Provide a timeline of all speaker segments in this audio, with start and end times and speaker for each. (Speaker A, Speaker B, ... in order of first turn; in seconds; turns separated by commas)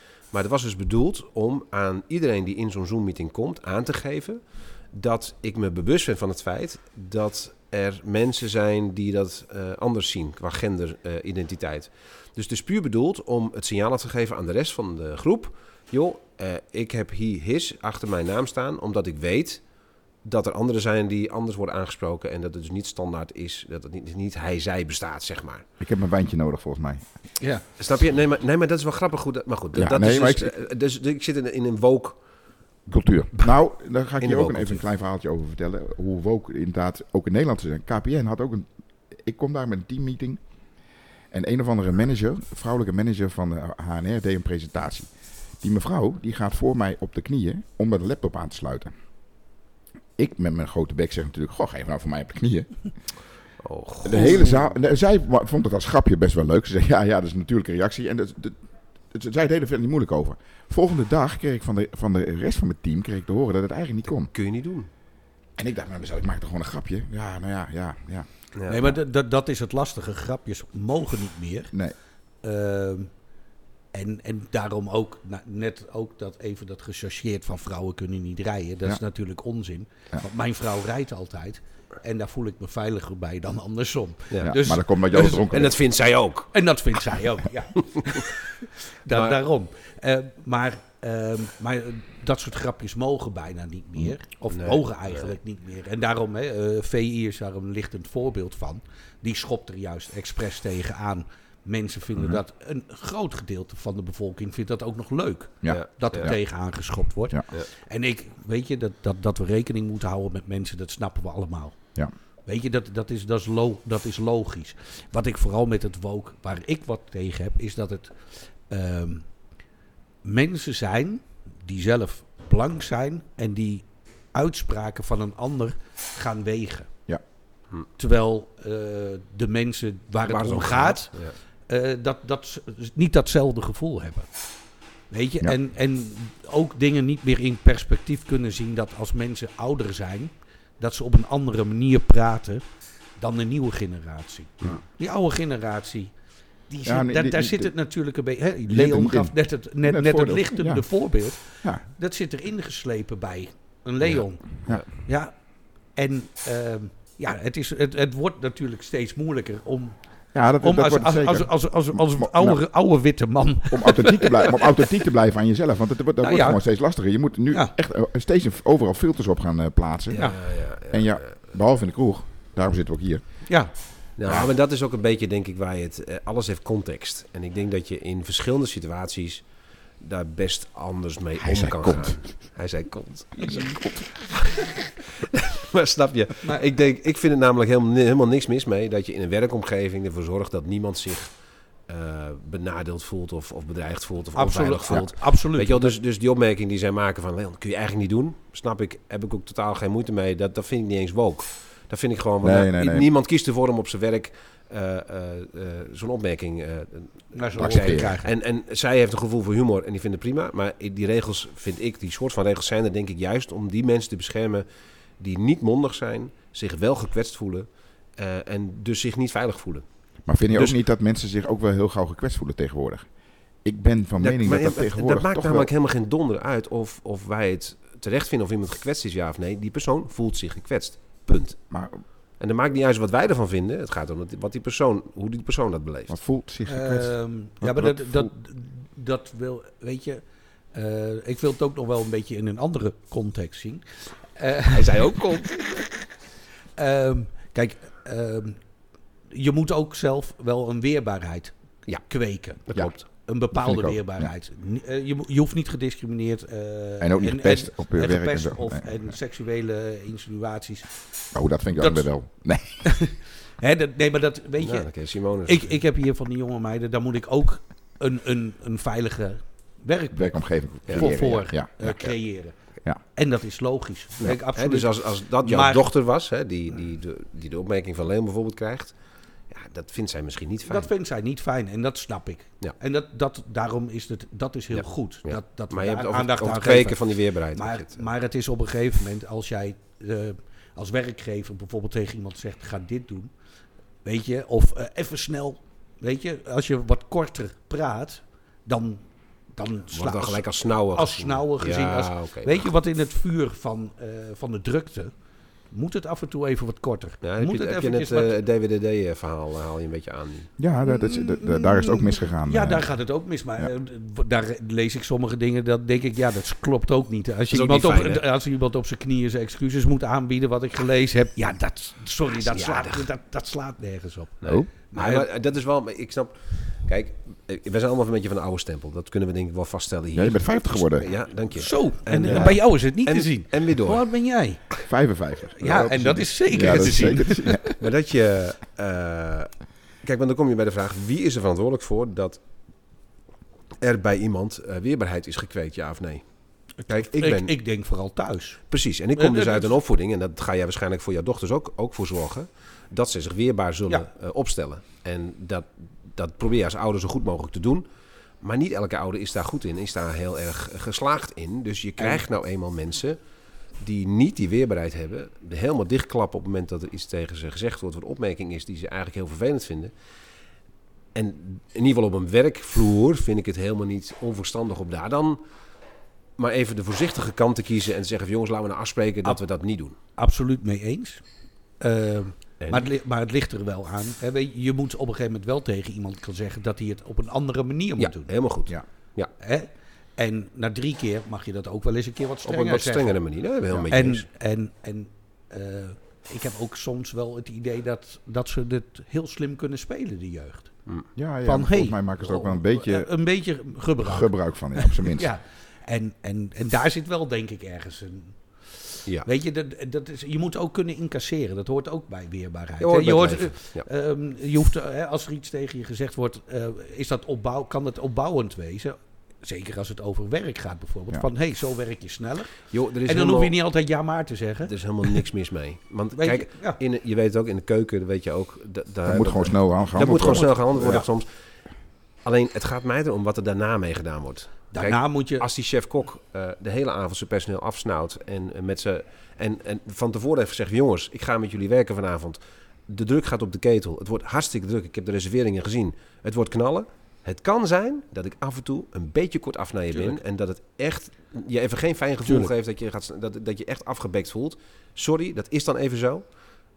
Speaker A: 0.3-4.4, Speaker A: 4.9-19.6, Speaker A: 20.2-25.6, Speaker B: 25.8-27.0, Speaker A: 27.8-32.2, Speaker B: 29.7-30.5, Speaker B: 32.9-40.4, Speaker A: 34.2-34.8, Speaker B: 41.3-45.1, Speaker B: 45.6-48.9, Speaker B: 50.2-52.9, Speaker A: 53.6-54.6, Speaker B: 54.0-58.6, Speaker B: 59.1-64.3, Speaker A: 64.2-64.9, Speaker B: 65.6-69.0, Speaker C: 68.7-71.7, Speaker C: 72.4-73.1, Speaker C: 73.9-85.5, Speaker B: 84.4-85.8, Speaker A: 85.4-86.5, Speaker C: 86.5-88.3, Speaker C: 89.0-111.8, Speaker A: 89.1-89.4, Speaker A: 94.5-95.3, Speaker B: 105.6-106.4, Speaker A: 105.7-106.3, Speaker C: 112.5-118.1, Speaker C: 118.7-119.3, Speaker C: 120.2-126.9, Speaker C: 128.0-131.1, Speaker A: 130.2-131.3, Speaker C: 131.7-134.3, Speaker C: 135.1-142.6, Speaker C: 143.2-146.1, Speaker C: 146.7-155.3, Speaker B: 146.8-147.7, Speaker B: 148.7-150.9, Speaker C: 155.9-159.9, Speaker B: 160.3-162.6, Speaker C: 160.6-164.6, Speaker B: 163.7-170.3, Speaker C: 166.2-166.6, Speaker A: 170.1-171.5, Speaker B: 170.9-173.4, Speaker C: 173.5-173.7, Speaker A: 174.2-179.4, Speaker B: 174.2-174.5, Speaker A: 180.0-191.3, Speaker B: 181.4-182.2, Speaker C: 183.4-183.8, Speaker A: 191.9-214.6, Speaker C: 194.3-195.9, Speaker B: 202.4-203.1, Speaker C: 207.3-208.3, Speaker B: 207.6-208.1, Speaker A: 215.2-219.8, Speaker B: 220.2-223.1, Speaker B: 223.6-225.7, Speaker A: 224.2-231.6, Speaker B: 231.7-232.0, Speaker A: 232.4-236.2, Speaker B: 236.1-238.3, Speaker C: 236.7-240.2, Speaker C: 240.7-243.8, Speaker C: 244.3-245.8, Speaker A: 244.7-245.5, Speaker C: 246.8-248.6, Speaker C: 249.3-251.5, Speaker C: 252.1-252.6, Speaker A: 252.7-253.0, Speaker C: 253.2-260.9, Speaker B: 253.5-254.3, Speaker B: 257.0-259.1, Speaker B: 261.3-262.8, Speaker C: 261.8-262.1, Speaker C: 262.8-264.9, Speaker A: 264.6-265.7, Speaker C: 265.4-272.5, Speaker B: 270.1-272.1, Speaker C: 273.1-275.9, Speaker A: 274.2-278.9, Speaker A: 279.5-280.9, Speaker C: 280.7-293.3, Speaker A: 284.7-288.0, Speaker C: 294.0-305.1, Speaker A: 299.9-302.7, Speaker C: 305.7-308.3, Speaker A: 307.2-310.5, Speaker B: 310.6-312.9, Speaker C: 310.8-325.3, Speaker A: 317.5-318.2, Speaker A: 322.4-323.1, Speaker A: 324.4-334.0, Speaker B: 330.1-331.1, Speaker C: 331.6-334.6, Speaker B: 332.3-332.5, Speaker B: 334.9-337.7, Speaker C: 335.6-337.7, Speaker A: 337.8-339.5, Speaker A: 340.0-342.4, Speaker A: 343.8-346.2, Speaker C: 346.8-348.6, Speaker A: 346.9-347.5, Speaker A: 348.7-357.8, Speaker C: 349.1-349.7, Speaker A: 358.4-363.2, Speaker A: 363.8-369.9, Speaker A: 371.1-375.4, Speaker A: 376.4-379.9, Speaker C: 380.2-381.2, Speaker C: 381.8-388.3, Speaker A: 382.6-382.9, Speaker A: 388.0-389.3, Speaker C: 389.4-393.2, Speaker A: 392.4-394.2, Speaker C: 393.9-400.7, Speaker B: 401.1-403.1, Speaker C: 401.4-408.4, Speaker B: 404.0-405.3, Speaker C: 408.9-425.2, Speaker A: 412.8-413.9, Speaker A: 422.7-423.5, Speaker A: 424.6-431.2, Speaker C: 426.1-426.8, Speaker B: 429.1-431.0, Speaker C: 430.2-431.0, Speaker A: 432.2-456.2, Speaker C: 434.7-435.4